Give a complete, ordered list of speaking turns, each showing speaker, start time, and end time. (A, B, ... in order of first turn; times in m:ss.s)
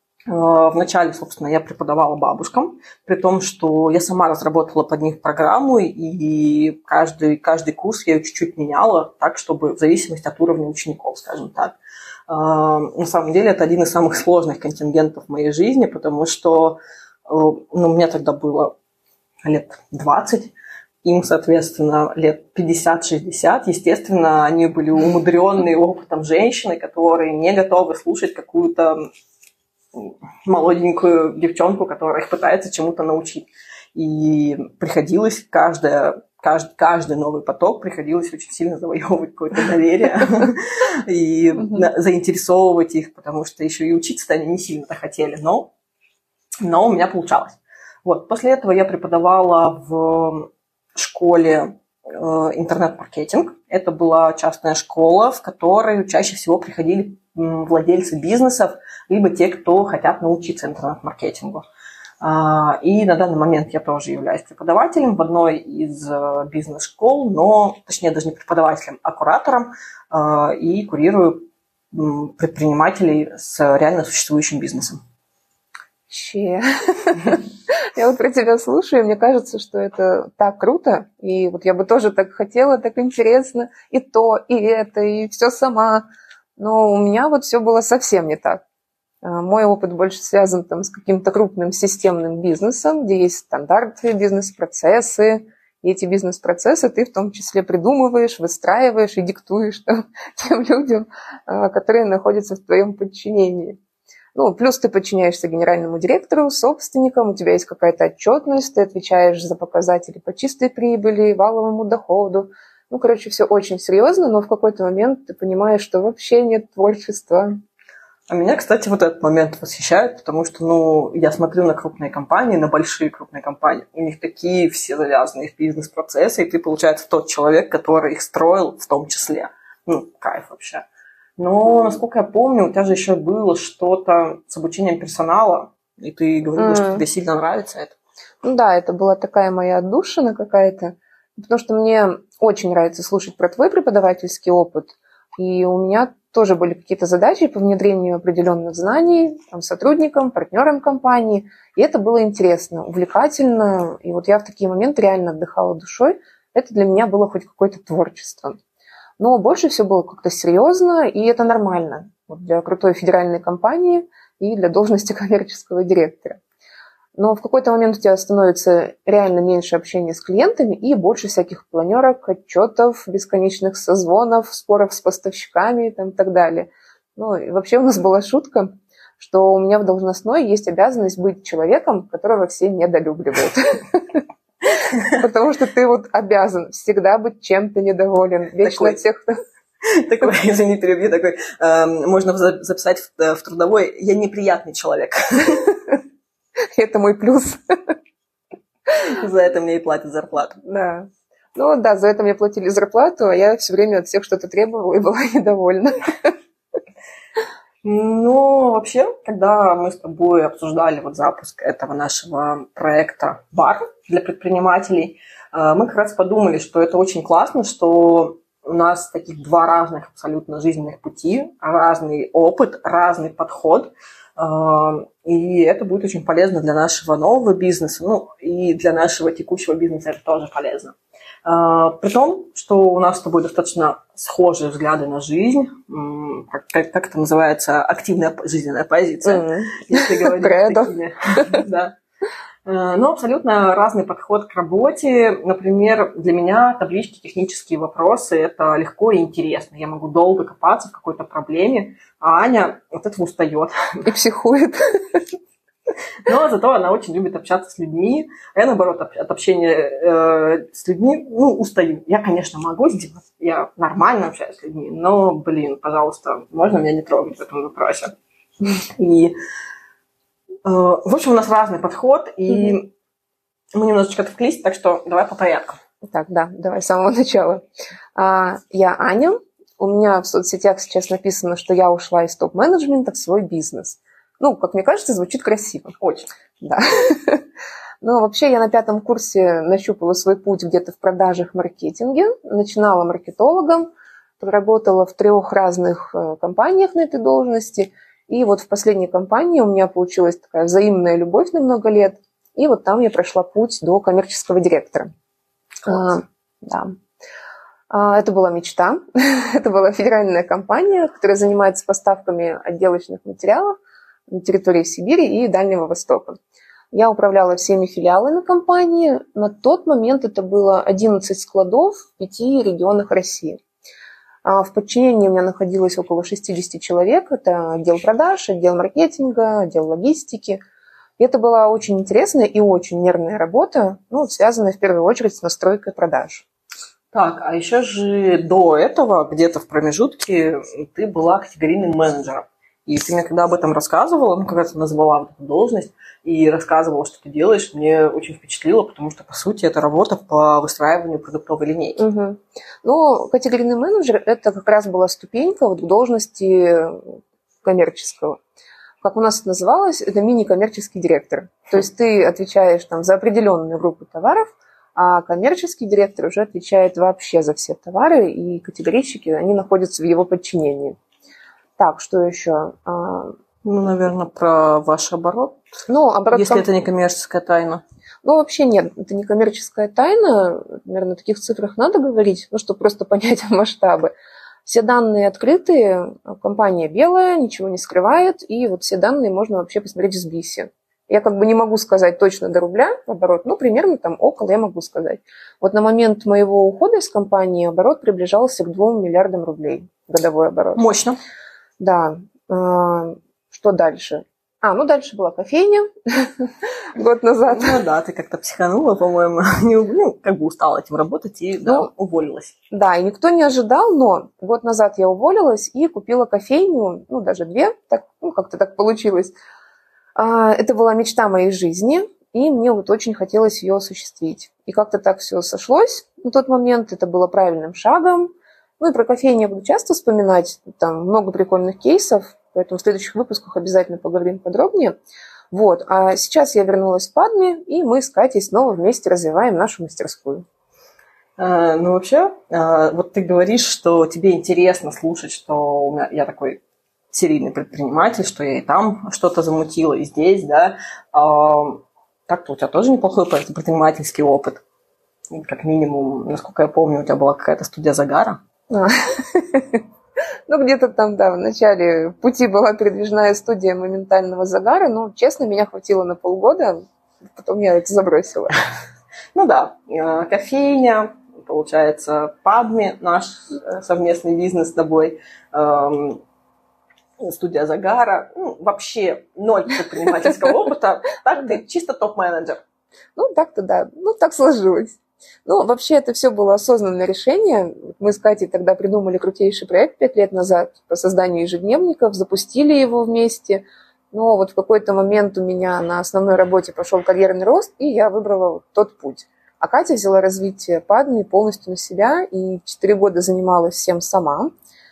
0:00.3-0:11.8 A
0:12.3-0:18.8 A
0:19.4-0:29.1 A
0:29.9-0:45.7 A
0:46.6-1:01.6 A
1:02.2-1:15.0 A
1:16.1-1:26.0 B
1:26.6-1:28.6 B
1:29.2-1:43.8 B
1:44.4-1:57.6 B
1:58.3-2:10.8 A
2:11.4-2:18.0 A
2:16.6-2:17.0 B
2:18.4-2:38.6 B
2:39.2-2:46.4 B
2:47.2-3:09.4 B
3:08.6-3:09.0 A
3:09.8-3:15.8 A
3:16.7-3:17.9 B
3:19.0-3:20.6 A
3:20.6-3:26.4 B
3:27.8-4:02.0 A
3:59.2-4:00.9 B
4:02.6-4:14.1 A
4:14.0-4:15.2 B
4:16.2-4:28.1 A
4:29.0-4:29.3 A
4:30.6-4:32.9 A
4:33.8-4:35.8 A
4:36.0-4:37.6 B
4:38.2-4:46.0 B
4:46.0-4:46.3 A
4:46.6-4:47.4 B
4:48.0-4:53.9 B
4:54.4-5:05.1 B
5:05.8-5:07.0 B
5:07.9-5:13.8 B
5:14.3-5:16.4 B
5:16.9-5:23.6 B
5:24.4-5:30.6 B
5:31.2-5:36.5 B
5:37.1-5:52.0 A
5:52.0-5:58.4 B
5:59.0-6:11.0 B
6:11.8-6:13.4 B
6:13.6-6:15.6 A
6:15.9-6:16.7 B
6:16.3-6:17.8 A
6:18.2-6:24.1 B
6:24.6-6:40.8 B
6:40.8-6:41.2 A
6:41.8-6:47.8 B
6:47.5-6:52.5 A
6:52.7-6:59.4 B
7:00.2-7:14.9 B
7:15.5-7:20.4 B
7:21.4-7:26.6 A
7:27.1-7:34.6 A
7:35.3-7:38.4 A
7:38.7-7:39.8 B
7:40.5-7:46.8 B
7:47.4-7:48.6 B
7:49.3-7:56.2 A
7:57.2-8:02.6 A
8:03.2-8:24.5 B